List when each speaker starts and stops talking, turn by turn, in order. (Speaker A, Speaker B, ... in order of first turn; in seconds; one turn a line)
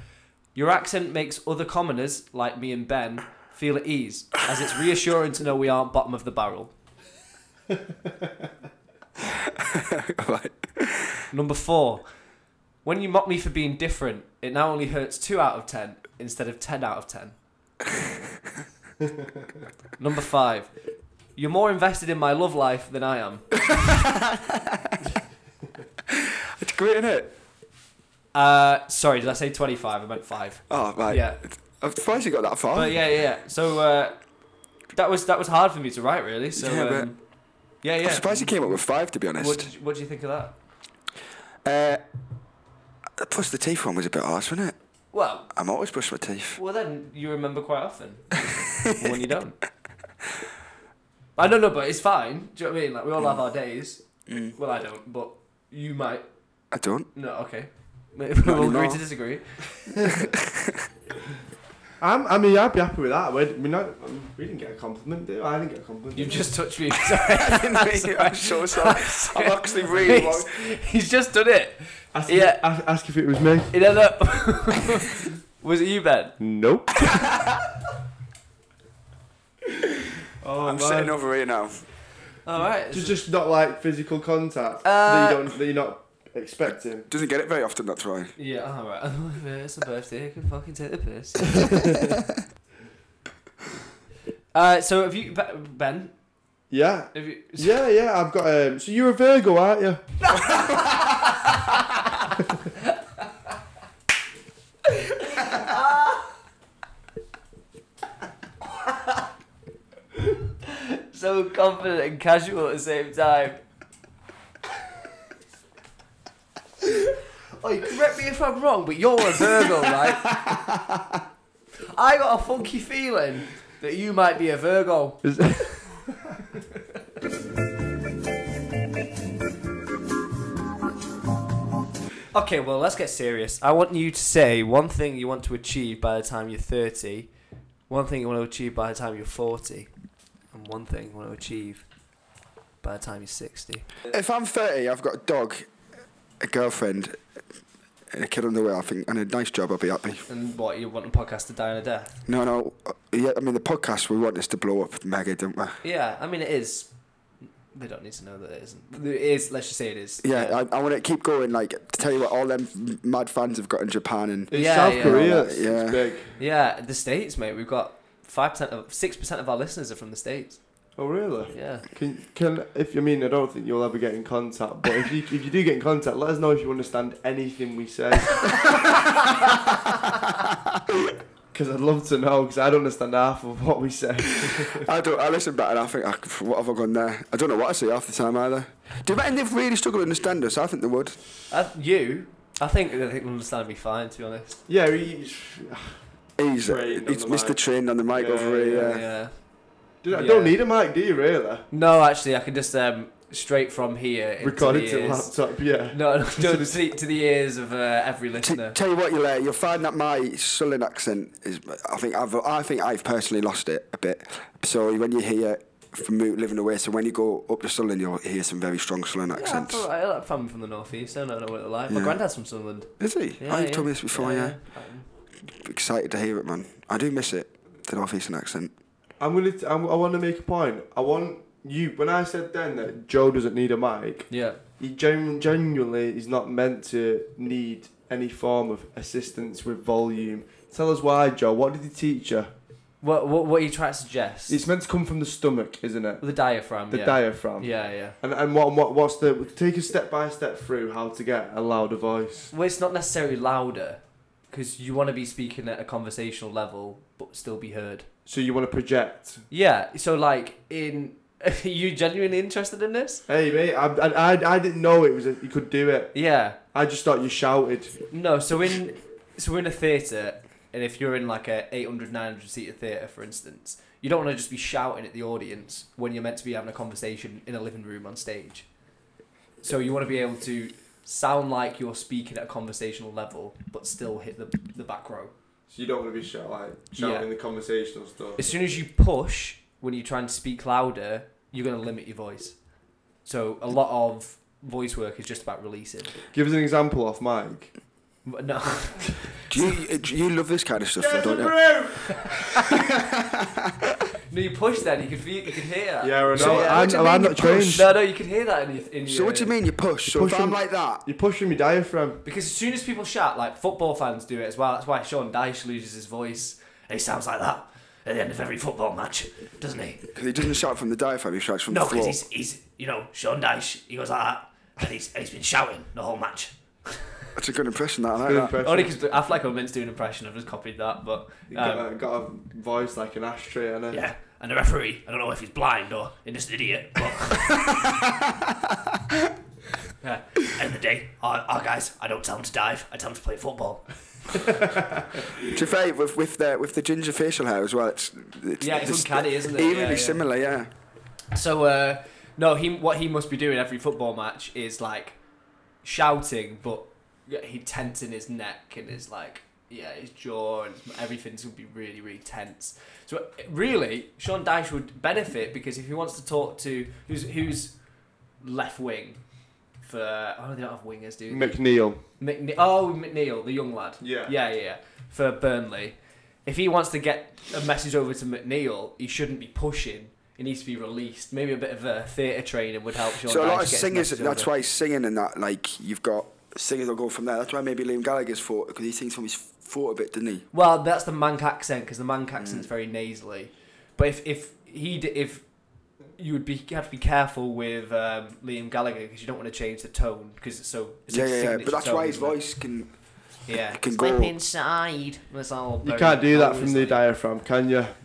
Speaker A: 0.5-6.7
Speaker B: 9.2-11.2
Speaker A: 11.3-12.0
Speaker A: 12.8-17.4
Speaker A: 20.0-20.7
Speaker A: 21.3-23.8
Speaker B: 23.8-24.9
Speaker B: 26.1-27.3
Speaker A: 28.3-31.4
Speaker B: 30.7-33.2
Speaker A: 32.7-34.3
Speaker A: 34.9-37.2
Speaker B: 36.5-37.1
Speaker A: 37.8-38.8
Speaker B: 38.0-39.7
Speaker A: 39.4-40.5
Speaker B: 41.6-42.0
Speaker B: 43.2-44.8
Speaker A: 45.1-45.5
Speaker B: 45.5-46.6
Speaker A: 46.5-49.6
Speaker B: 48.6-49.2
Speaker A: 51.4-54.0
Speaker B: 54.3-54.5
Speaker A: 54.5-56.2
Speaker B: 56.7-57.1
Speaker A: 57.1-60.1
Speaker B: 58.4-59.0
Speaker B: 59.9-60.9
Speaker C: 62.0-66.5
Speaker A: 66.1-72.6
Speaker B: 67.1-70.6
Speaker C: 72.1-73.7
Speaker A: 73.7-76.4
Speaker C: 76.4-77.0
Speaker B: 77.0-77.5
Speaker C: 80.4-81.1
Speaker B: 80.6-81.9
Speaker A: 82.4-83.2
Speaker C: 82.9-87.0
Speaker A: 84.8-85.5
Speaker B: 87.1-88.3
Speaker A: 88.4-92.1
Speaker A: 94.5-96.1
Speaker C: 96.7-100.0
Speaker A: 97.1-97.8
Speaker A: 100.3-101.6
Speaker A: 105.0-106.2
Speaker A: 110.6-113.6
Speaker A: 117.6-120.4
Speaker B: 120.5-121.0
Speaker A: 121.9-125.2
Speaker C: 125.2-126.4
Speaker A: 132.3-137.3
Speaker A: 137.9-139.9
Speaker A: 140.5-141.8
Speaker A: 142.8-143.9
Speaker B: 144.1-145.7
Speaker B: 146.4-147.2
Speaker B: 148.1-150.2
Speaker A: 150.3-152.2
Speaker B: 152.2-155.8
Speaker A: 155.8-156.9
Speaker A: 157.7-160.6
Speaker B: 160.2-166.1
Speaker C: 164.5-166.3
Speaker A: 164.5-165.2
Speaker A: 166.4-170.6
Speaker C: 171.0-178.8
Speaker A: 171.5-171.8
Speaker C: 181.5-184.9
Speaker B: 184.3-191.2
Speaker A: 191.5-194.6
Speaker C: 194.7-196.0
Speaker B: 196.4-199.1
Speaker C: 196.6-197.6
Speaker C: 198.1-199.0
Speaker A: 198.7-199.4
Speaker C: 200.0-201.7
Speaker A: 200.1-200.5
Speaker A: 201.7-205.3
Speaker C: 204.4-206.8
Speaker A: 205.9-208.8
Speaker B: 208.4-219.8
Speaker A: 219.3-222.9
Speaker B: 221.9-222.2
Speaker B: 223.0-224.6
Speaker A: 223.4-225.1
Speaker B: 225.5-228.7
Speaker C: 229.2-234.3
Speaker A: 234.3-234.6
Speaker C: 234.8-242.5
Speaker A: 243.0-244.6
Speaker C: 244.5-246.2
Speaker A: 246.2-248.2
Speaker C: 246.9-252.5
Speaker A: 252.5-258.1
Speaker C: 258.2-259.4
Speaker A: 259.5-263.2
Speaker C: 263.3-266.1
Speaker A: 266.1-266.6
Speaker C: 266.7-268.0
Speaker A: 268.1-278.7
Speaker A: 279.6-285.3
Speaker C: 285.7-288.4
Speaker A: 286.9-287.3
Speaker A: 288.4-292.6
Speaker A: 293.2-296.1
Speaker C: 296.3-297.7
Speaker A: 298.2-299.7
Speaker B: 299.5-303.6
Speaker C: 301.0-302.6
Speaker A: 304.3-309.5
Speaker C: 306.0-307.9
Speaker B: 306.3-307.9
Speaker B: 309.0-311.0
Speaker C: 310.1-312.2
Speaker A: 312.2-320.1
Speaker B: 320.1-322.2
Speaker A: 321.7-327.3
Speaker B: 327.3-328.6
Speaker C: 328.2-328.9
Speaker A: 328.6-331.8
Speaker C: 331.5-334.0
Speaker A: 333.9-337.7
Speaker B: 337.9-338.5
Speaker A: 340.0-344.6
Speaker B: 345.4-350.7
Speaker A: 348.6-350.2
Speaker A: 351.3-355.2
Speaker A: 355.8-367.8
Speaker A: 368.4-369.2
Speaker A: 369.8-371.6
Speaker C: 371.3-372.0
Speaker A: 372.2-384.5
Speaker C: 374.0-374.3
Speaker B: 383.2-390.4
Speaker A: 390.5-395.5
Speaker B: 392.4-392.7
Speaker A: 396.1-402.4
Speaker B: 401.1-402.9
Speaker A: 403.5-407.0
Speaker B: 403.5-404.4
Speaker C: 405.8-407.9